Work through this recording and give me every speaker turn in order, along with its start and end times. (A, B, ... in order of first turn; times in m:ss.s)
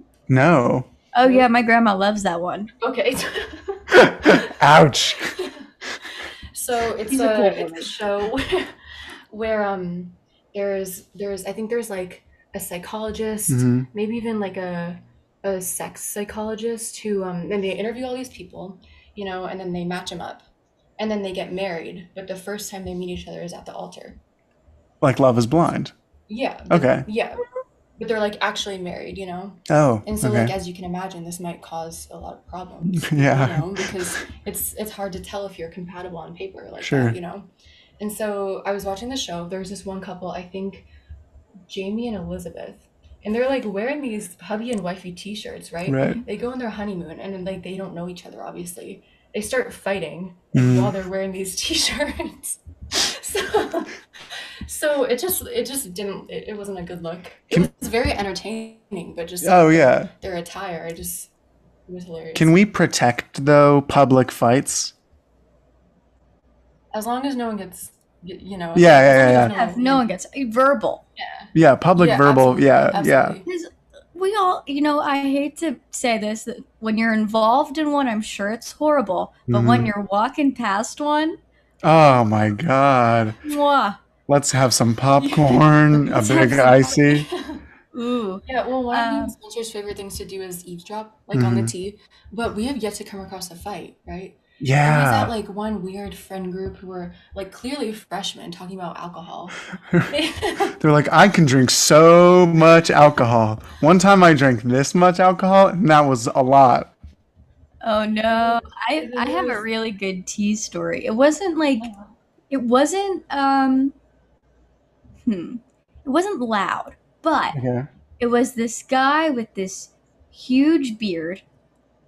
0:00.3-0:00.9 A
0:01.1-0:02.7 B
0:02.8-0:04.5 C
0:03.9-0:05.3 A
0:06.5-0:08.7 C
0:07.1-0:07.9 B
0:09.3-0:20.4 C
0:13.5-0:13.9 A
0:21.0-0:24.2 C
0:25.0-0:25.9 A
0:26.3-0:27.4 C
0:26.7-0:27.1 A
0:28.0-0:37.5 C
0:29.7-0:30.6 A
0:32.9-0:33.8 A
0:36.8-0:37.2 A
0:38.0-0:40.9 C
0:41.7-0:54.0 C
0:45.9-0:46.2 A
0:50.5-0:51.0 A
0:54.7-1:01.3 C
0:59.4-1:00.1 A
1:01.9-1:02.5 C
1:02.4-1:04.9 A
1:06.9-1:10.1 C
1:08.7-1:09.6 A
1:09.1-1:11.0 B
1:11.2-1:13.4 C
1:11.6-1:13.4 A
1:13.4-1:21.4 B
1:19.5-1:19.9 A
1:21.8-1:23.4 A
1:23.4-1:24.0 B
1:24.3-1:27.3 A
1:25.2-1:27.6 C
1:26.1-1:27.1 B
1:27.9-1:29.3 B
1:28.5-1:40.8 C
1:31.3-1:31.7 A
1:34.6-1:35.3 A
1:40.7-1:46.9 A
1:47.8-1:51.9 B
1:48.3-1:49.6 C
1:51.8-1:52.1 C
1:52.5-1:54.0 B
1:55.3-1:57.6 B
1:57.5-1:57.9 A
1:58.2-2:01.4 B